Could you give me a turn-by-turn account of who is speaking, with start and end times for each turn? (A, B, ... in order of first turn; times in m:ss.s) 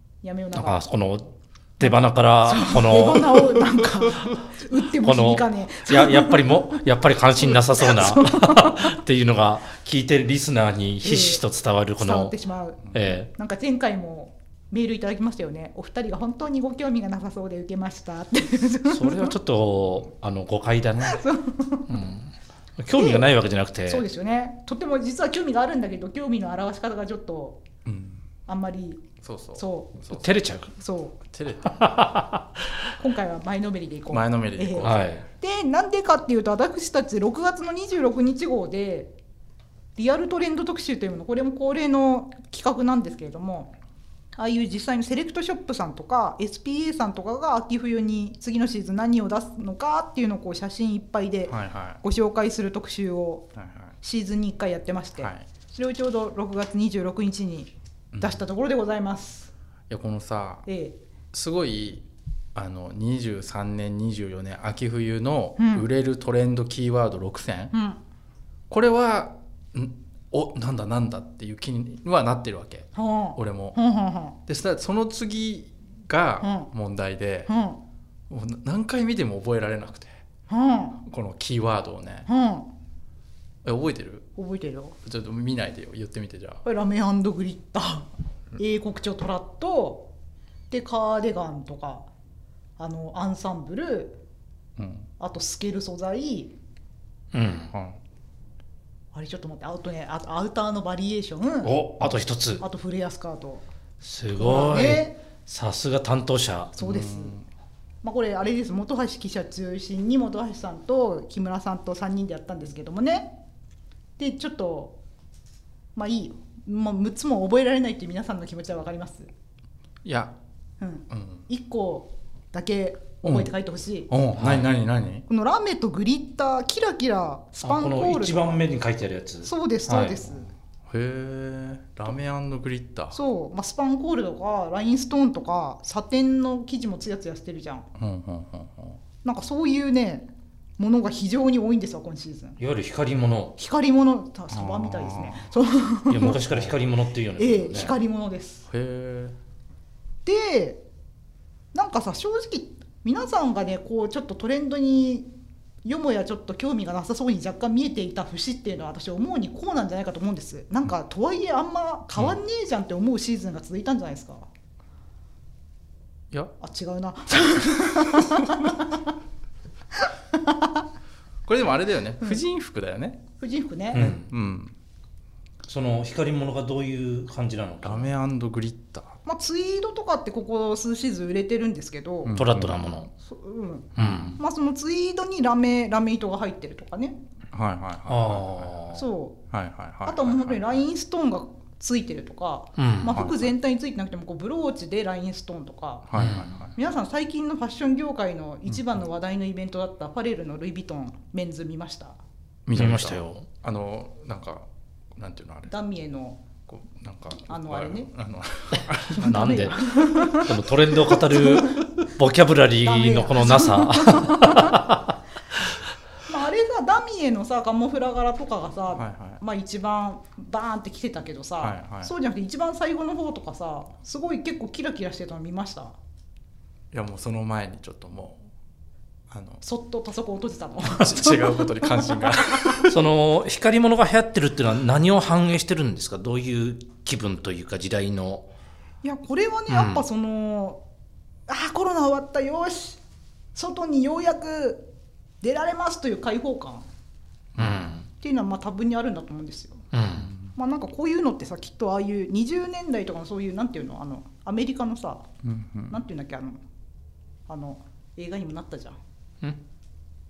0:00.2-0:00.8 A
0:00.5-0:12.3 B
0:01.8-0:06.8 A
0:07.4-0:09.0 A
0:11.0-0:11.4 A
0:12.0-0:19.3 A
0:12.9-0:13.3 B
0:18.9-0:21.2 B
0:21.0-0:22.0 A
0:21.9-0:24.0 B
0:22.9-0:23.3 A
0:23.8-0:27.6 A
0:27.8-0:28.2 C
0:28.5-0:29.0 A
0:29.2-0:30.3 C
0:29.6-0:30.0 A
0:30.1-0:30.7 B
0:30.8-0:31.2 A
0:31.3-0:32.0 C
0:31.7-0:32.5 B
0:33.0-0:39.1 A
0:34.1-0:35.1 C
0:34.8-0:35.2 B
0:40.0-0:43.7 A
0:44.4-0:53.4 A
0:51.5-0:52.0 C
0:53.6-0:53.9 C
0:54.0-0:59.5 A
0:55.2-0:55.5 C
0:58.1-0:58.4 C
0:59.9-1:00.6 C
1:00.6-1:01.0 A
1:01.3-1:07.7 C
1:05.6-1:05.9 A
1:07.7-1:08.0 A
1:08.7-1:13.8 C
1:12.9-1:14.4 A
1:14.4-1:17.5 C
1:16.4-1:16.7 A
1:17.5-1:17.8 A
1:18.3-1:20.1 C
1:20.5-1:21.0 A
1:21.0-1:22.3 C
1:22.3-1:22.7 A
1:23.6-1:24.3 C
1:24.4-1:25.0 A
1:25.0-1:26.6 C
1:26.6-1:30.1 A
1:30.7-1:32.1 A
1:32.8-1:34.2 A
1:34.8-1:35.1 C
1:35.2-1:36.5 A
1:37.3-1:37.7 B
1:37.7-1:38.0 C
1:39.1-1:41.7 A
1:41.6-1:42.6 B
1:42.6-1:43.6 A
1:44.0-1:46.8 B
1:44.3-1:45.2 A
1:46.8-1:47.4 A
1:46.8-1:47.4 C
1:48.0-1:53.3 A
1:54.2-1:54.9 A
1:55.9-1:59.3 A
2:00.0-2:00.3 C
2:00.8-2:04.1 A
2:01.1-2:01.4 C
2:03.2-2:03.5 C
2:04.1-2:05.2 C
2:04.4-2:04.7 B
2:05.3-2:08.6 A
2:07.6-2:10.2 B
2:09.4-2:10.5 A
2:10.9-2:13.2 C
2:13.1-2:17.8 A
2:18.0-2:19.0 C
2:19.2-2:22.6 A
2:22.6-2:23.6 B
2:23.6-2:26.4 A
2:24.5-2:25.5 C
2:26.1-2:27.9 B
2:26.4-2:26.7 C
2:27.4-2:28.6 A
2:28.7-2:29.4 C
2:30.2-2:30.8 A
2:31.7-2:35.3 A
2:35.8-2:44.5 A
2:46.6-2:49.1 A
2:50.0-2:50.8 A
2:51.4-2:53.2 C
2:53.4-2:54.1 A
2:53.9-2:54.2 B
2:53.9-2:54.7 C
2:55.6-2:58.1 B
2:57.8-2:59.2 C
2:59.2-3:02.4 A
3:02.2-3:03.0 C
3:02.4-3:03.1 B
3:03.2-3:07.2 A
3:04.0-3:04.4 B
3:04.0-3:04.4 C
3:07.5-3:08.8 C
3:08.1-3:09.0 B
3:08.9-3:09.4 A
3:09.5-3:10.8 C
3:10.0-3:16.0 A
3:12.8-3:13.2 B
3:13.1-3:13.5 C
3:16.1-3:16.7 C
3:16.1-3:16.6 B
3:16.7-3:22.2 A
3:18.7-3:18.9 C
3:22.6-3:25.7 C
3:22.7-3:23.5 B
3:25.7-3:26.4 A
3:26.7-3:29.8 C
3:27.4-3:28.1 A
3:29.1-3:31.8 A
3:29.2-3:35.1 B
3:32.8-3:34.9 A
3:36.3-3:46.0 A
3:38.9-3:39.4 C
3:41.6-3:42.1 C
3:46.9-3:48.4 C
3:49.3-3:49.6 C
3:49.6-3:52.8 A
3:50.9-3:53.0 C
3:52.9-3:58.5 B
3:59.0-4:00.8 A
3:59.7-4:00.0 B
4:01.5-4:03.0 A
4:03.5-4:04.9 A
4:05.4-4:06.9 A
4:07.6-4:07.8 C
4:07.6-4:08.1 B
4:08.2-4:09.8 A
4:09.9-4:10.3 B
4:10.2-4:10.5 C
4:10.5-4:15.2 A
4:15.4-4:16.0 C
4:15.9-4:16.6 A
4:17.5-4:19.0 A